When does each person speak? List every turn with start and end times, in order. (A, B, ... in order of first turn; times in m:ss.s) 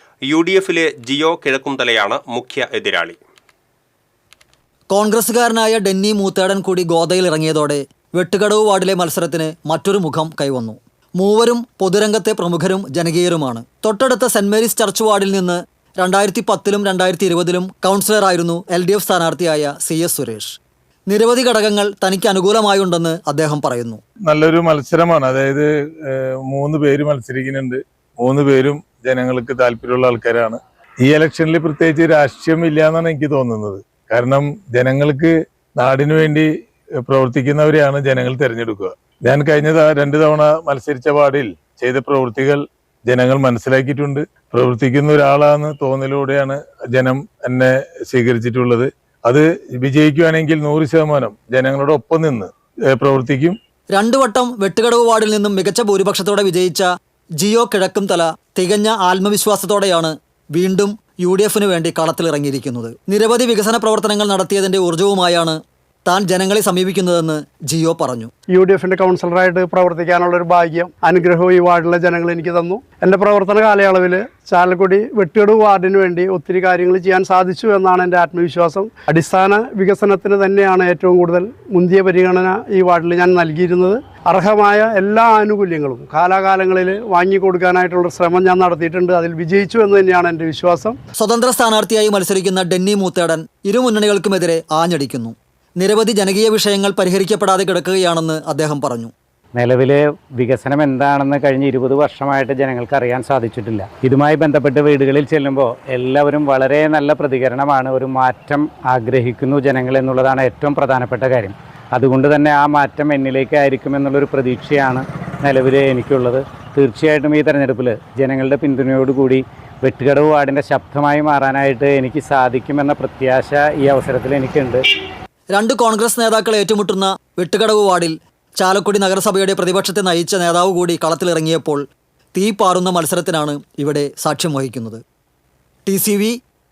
0:00.3-0:03.2 A
0:04.9-0:20.6 B
0:21.1-0:24.0 B
0:24.3-0:36.5 C
0:37.0-0:53.6 C
0:53.9-0:56.9 B
0:57.4-1:08.3 B
1:08.5-1:31.0 D
1:31.1-1:39.1 B
1:39.5-2:04.8 E
2:05.5-2:11.8 B
2:12.3-2:15.0 B
2:15.8-2:16.4 B